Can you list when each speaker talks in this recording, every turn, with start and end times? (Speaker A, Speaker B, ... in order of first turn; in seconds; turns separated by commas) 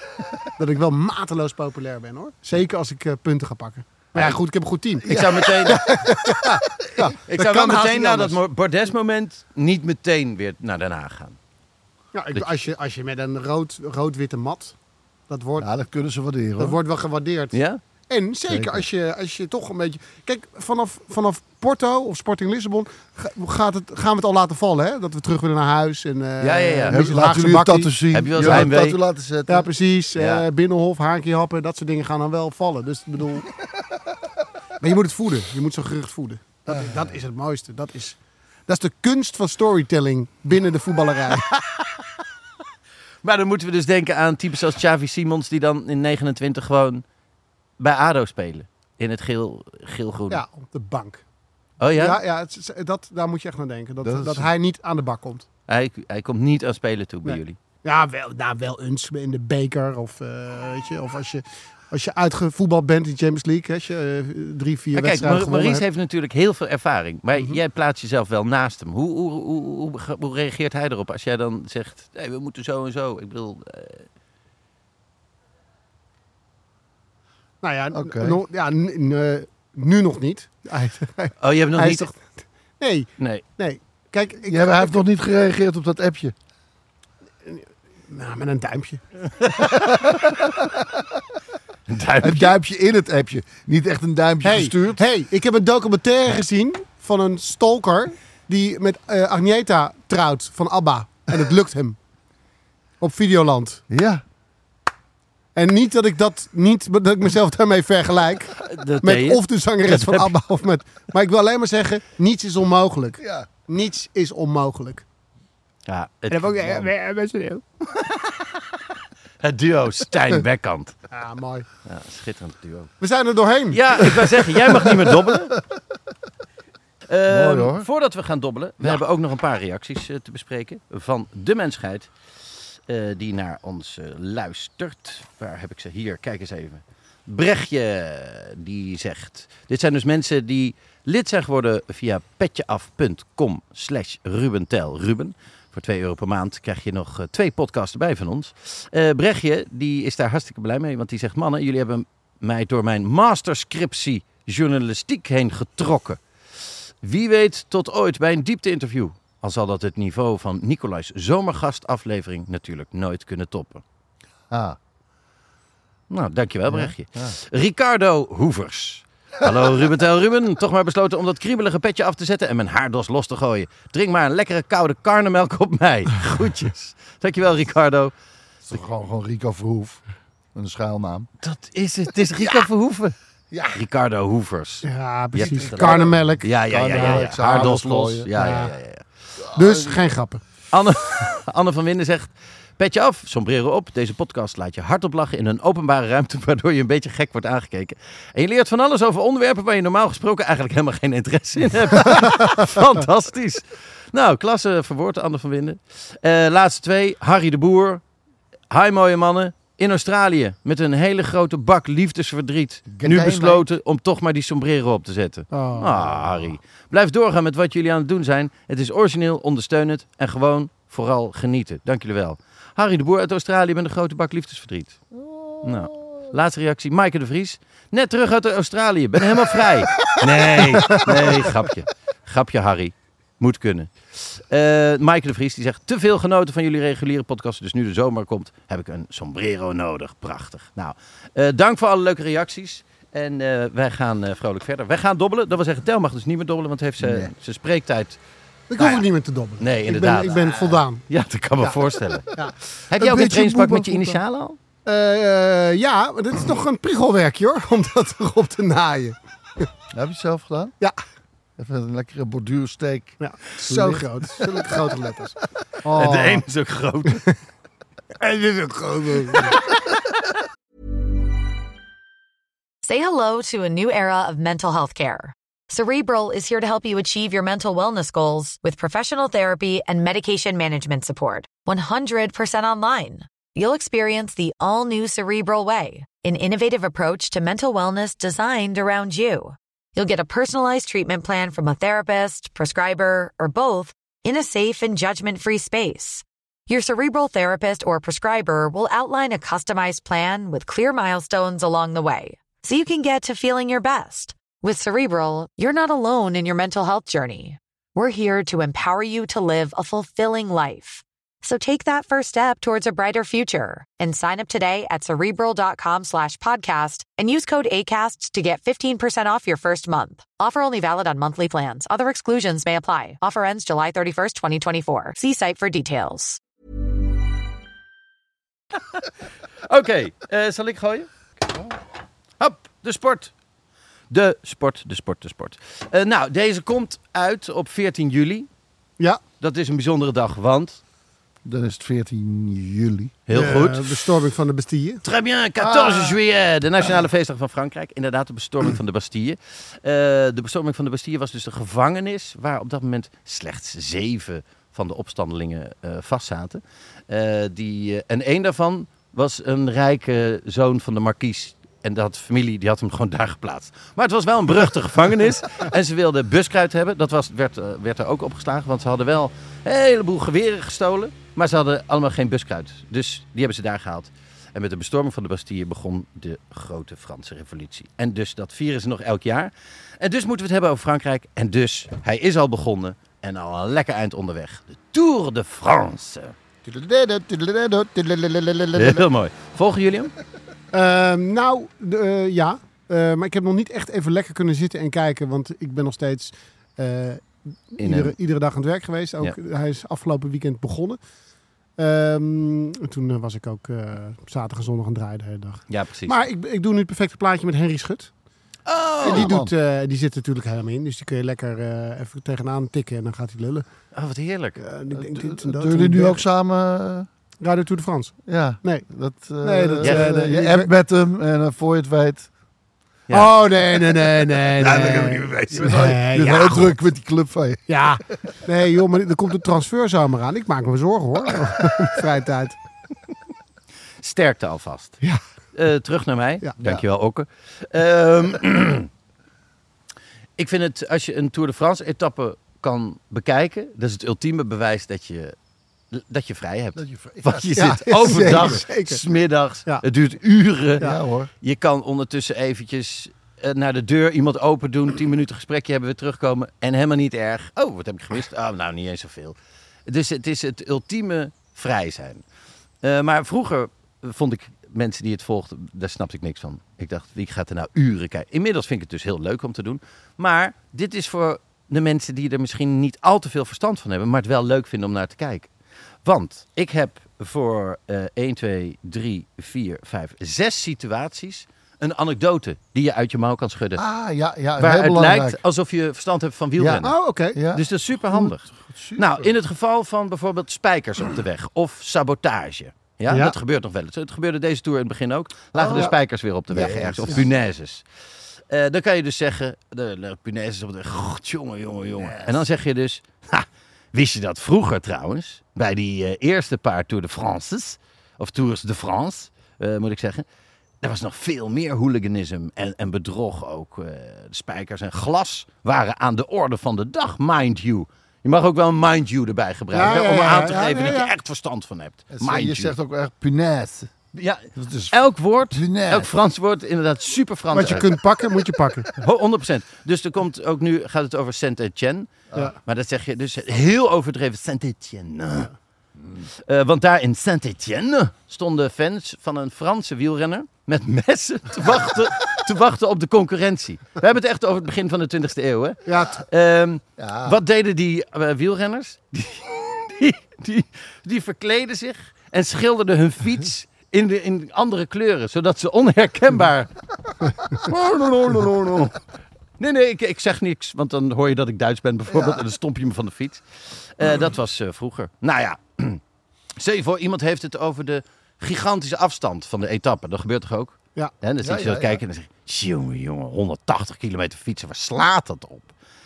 Speaker A: 0.6-8.4, Speaker B: 5.0-5.9, Speaker B: 7.2-11.4, Speaker A: 12.1-14.8, Speaker A: 15.3-15.7, Speaker C: 15.6-16.8, Speaker A: 16.6-28.7, Speaker B: 17.5-17.8, Speaker C: 18.5-18.9, Speaker B: 26.4-27.0, Speaker C: 26.9-29.7, Speaker B: 28.1-29.0, Speaker A: 29.5-33.5, Speaker B: 30.1-30.4, Speaker A: 34.8-41.5, Speaker B: 41.5-42.0, Speaker B: 43.2-47.0, Speaker B: 47.8-50.4, Speaker A: 50.3-51.2, Speaker B: 51.8-52.2, Speaker A: 52.0-55.5, Speaker C: 54.0-54.5, Speaker B: 55.7-57.6, Speaker A: 57.2-65.8, Speaker B: 64.9-74.0, Speaker A: 77.6-82.2, Speaker C: 77.9-78.4, Speaker B: 81.4-82.0, Speaker A: 82.8-85.0, Speaker C: 84.5-86.3, Speaker A: 87.4-89.0, Speaker B: 89.4-90.0, Speaker C: 90.1-91.0, Speaker B: 91.9-92.6, Speaker C: 92.2-95.0, Speaker A: 94.4-102.0, Speaker A: 103.0-103.8, Speaker C: 103.9-104.2, Speaker A: 105.5-115.0, Speaker B: 108.6-110.3, Speaker C: 113.2-113.5, Speaker B: 115.9-116.9, Speaker A: 116.3-117.6, Speaker B: 119.4-121.0, Speaker A: 121.1-121.7, Speaker B: 121.8-122.9, Speaker A: 123.0-124.1, Speaker B: 123.7-125.6, Speaker C: 124.9-125.4, Speaker B: 127.1-132.1, Speaker C: 127.3-127.9, Speaker B: 132.9-156.2, Speaker B: 157.0-163.8, Speaker C: 164.5-164.8, Speaker B: 166.1-178.1, Speaker C: 166.7-167.3, Speaker C: 178.7-180.0, Speaker C: 180.5-181.3, Speaker B: 181.4-183.2, Speaker C: 182.3-182.7, Speaker C: 183.5-183.8, Speaker B: 183.7-189.0, Speaker A: 184.8-187.8, Speaker C: 185.4-188.3, Speaker A: 188.3-188.7, Speaker C: 189.4-190.1, Speaker A: 189.5-190.4, Speaker B: 190.7-208.0, Speaker B: 208.7-225.0, Speaker C: 212.9-213.7, Speaker A: 215.5-216.2, Speaker C: 225.1-226.3, Speaker B: 225.6-248.2, Speaker A: 230.7-231.3, Speaker C: 230.8-231.2, Speaker C: 247.0-247.3, Speaker A: 248.7-251.0, Speaker B: 248.8-249.0, Speaker B: 249.6-252.3, Speaker B: 252.9-254.6, Speaker C: 252.9-254.2, Speaker A: 254.8-259.6, Speaker C: 259.9-260.8, Speaker C: 261.6-264.9, Speaker A: 263.2-266.4, Speaker B: 265.9-267.2, Speaker A: 268.2-269.7, Speaker D: 272.8-326.4, Speaker B: 329.6-331.1, Speaker B: 332.4-333.3, Speaker B: 334.1-338.5, Speaker B: 339.4-340.8, Speaker C: 341.4-343.1, Speaker B: 343.3-344.1, Speaker A: 343.3-345.0, Speaker B: 345.0-386.3, Speaker C: 345.6-346.2, Speaker C: 386.6-389.1, Speaker B: 388.7-390.1, Speaker A: 390.7-401.0, Speaker B: 397.8-398.1, Speaker A: 401.8-408.1, Speaker B: 405.7-406.2, Speaker B: 408.7-409.3, Speaker C: 409.0-409.5, Speaker A: 409.0-413.6, Speaker B: 413.9-414.6, Speaker A: 414.6-416.2, Speaker C: 414.9-417.1, Speaker A: 417.4-418.8, Speaker C: 418.2-422.3, Speaker A: 419.4-420.7, Speaker B: 419.8-420.1, Speaker B: 423.1-425.9, Speaker A: 423.1-426.8, Speaker C: 424.6-427.8, Speaker A: 427.7-432.6, Speaker B: 434.0-435.0, Speaker B: 435.5-438.9, Speaker B: 440.4-445.3, Speaker B: 445.9-450.9, Speaker C: 446.8-448.6, Speaker A: 447.6-449.0, Speaker C: 450.8-451.3, Speaker B: 451.4-462.2, Speaker B: 462.8-475.5, Speaker B: 476.0-483.8, Speaker C: 483.8-485.4, Speaker B: 484.6-486.9, Speaker C: 486.6-489.3, Speaker A: 486.8-487.4, Speaker B: 487.5-497.8, Speaker A: 493.1-493.4, Speaker C: 495.5-495.9, Speaker C: 496.5-497.3, Speaker B: 498.5-510.2, Speaker C: 502.0-502.4, Speaker B: 510.8-522.7, Speaker A: 519.7-521.1, Speaker C: 522.1-523.9, Speaker B: 524.1-528.0, Speaker C: 524.5-525.0, Speaker C: 525.5-526.1, Speaker A: 527.5-528.9, Speaker B: 529.0-535.5, Speaker B: 536.4-556.7, Speaker A: 545.9-546.2, Speaker C: 547.0-547.4, Speaker B: 557.5-558.9, Speaker B: 559.6-566.0, Speaker C: 562.1-562.4, Speaker B: 566.6-575.7, Speaker C: 571.4-572.0